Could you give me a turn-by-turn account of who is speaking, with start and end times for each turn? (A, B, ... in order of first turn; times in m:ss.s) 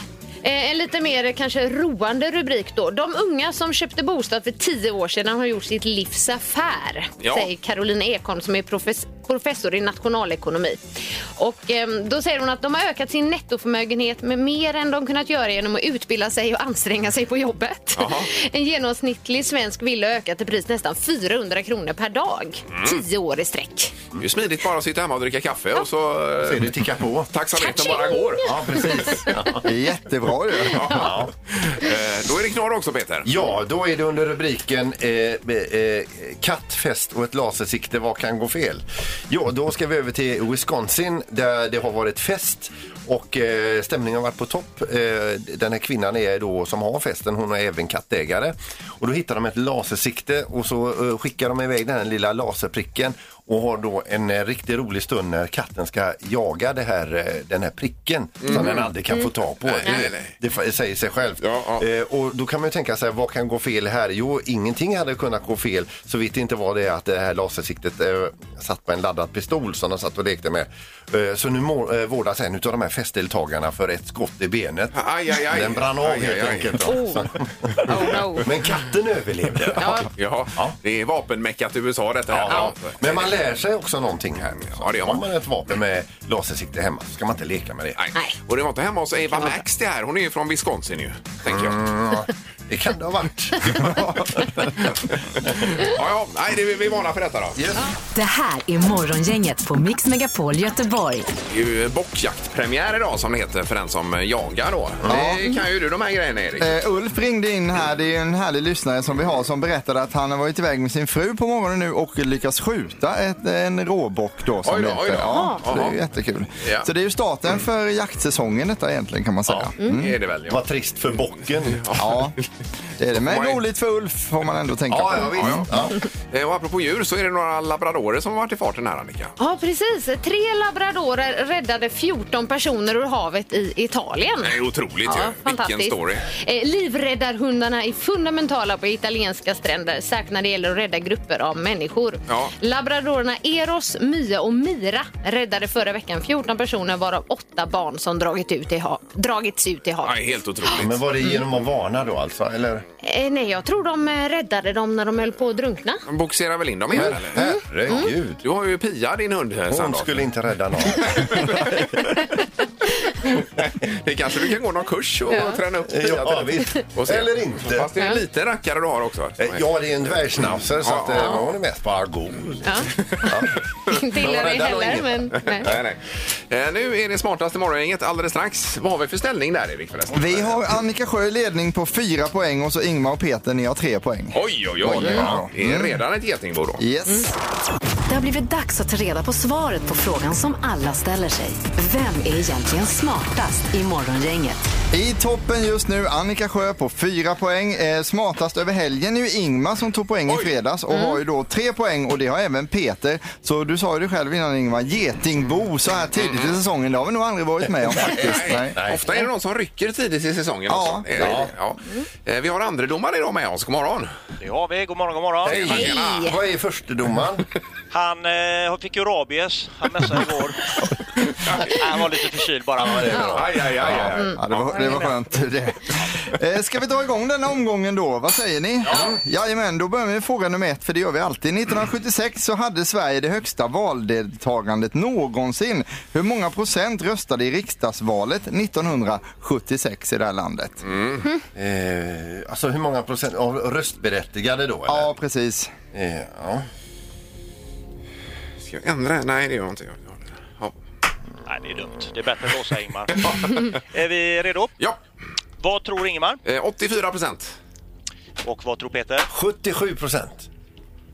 0:00.4-0:23.9 A
0:07.2-0:07.5 B
0:17.9-0:18.3 B
0:22.7-0:23.0 B
0:24.2-0:26.8 B
0:26.4-0:27.3 C
0:27.3-0:29.2 B
0:27.6-0:29.3 A
0:28.4-0:29.7 C
0:29.6-0:31.1 D
0:30.7-0:33.3 B
0:30.9-0:31.3 C
0:33.2-1:20.7 C
0:58.4-0:58.9 B
0:59.6-1:00.3 B
1:01.4-1:01.8 B
1:14.9-1:16.9 B
1:16.8-1:17.2 A
1:17.8-1:18.5 A
1:19.8-1:20.1 A
1:20.2-1:23.4 B
1:22.3-1:28.0 C
1:24.4-1:25.2 B
1:28.0-1:31.8 B
1:29.3-1:29.6 A
1:31.5-1:35.9 C
1:35.1-1:37.6 B
1:37.6-1:37.8 C
1:38.1-1:41.3 E
1:41.5-1:46.7 B
1:45.0-1:45.3 C
1:45.1-1:45.5 D
1:46.6-2:00.2 D
1:54.6-1:56.0 B
1:55.3-1:55.6 A
1:56.6-1:56.9 B
1:59.9-2:00.6 B
2:00.5-2:01.8 C
2:01.6-2:02.5 B
2:01.9-2:02.4 D
2:03.0-2:05.7 D
2:03.2-2:03.6 B
2:04.9-2:06.0 C
2:05.4-2:05.6 B
2:06.3-2:09.4 B
2:09.4-2:31.4 A
2:14.4-2:16.3 B
2:22.3-2:22.5 B
2:30.0-2:31.0 B
2:30.8-2:32.8 C
2:33.0-2:36.0 A
2:36.0-2:40.3 B
2:36.9-2:38.4 C
2:37.3-2:38.1 A
2:39.7-2:41.7 C
2:41.0-2:41.8 B
2:43.4-2:49.6 B
2:45.3-2:45.6 A
2:45.9-2:47.9 C
2:49.4-2:52.7 C
2:50.8-2:51.5 B
2:52.6-2:53.3 A
2:53.2-2:55.8 C
2:53.9-2:55.7 A
2:55.6-3:00.7 B
3:00.1-3:06.0 D
3:04.3-3:06.8 B
3:05.0-3:05.4 C
3:06.8-3:07.3 D
3:08.1-3:14.6 E
3:14.9-3:28.8 D
3:20.3-3:20.5 B
3:20.9-3:21.2 A
3:26.1-3:26.6 B
3:28.2-3:34.1 B
3:28.7-3:29.0 C
3:30.7-3:31.4 D
3:31.1-3:31.5 C
3:34.4-3:35.8 F
3:35.4-3:37.4 C
3:35.4-3:36.3 B
3:35.7-3:36.4 A
3:37.9-3:40.6 F
3:41.6-3:43.4 F
3:42.8-3:44.2 C
3:43.3-3:45.0 B
3:43.8-4:00.8 D
3:48.9-3:49.2 C
4:00.8-4:01.2 B
4:01.5-4:05.1 C
4:04.9-4:05.7 D
4:05.9-4:06.6 C
4:08.6-4:10.7 B
4:11.4-4:14.7 F
4:13.2-4:13.7 B
4:15.6-4:16.4 F
4:16.4-4:17.5 B
4:18.4-4:19.3 F
4:19.3-4:20.5 C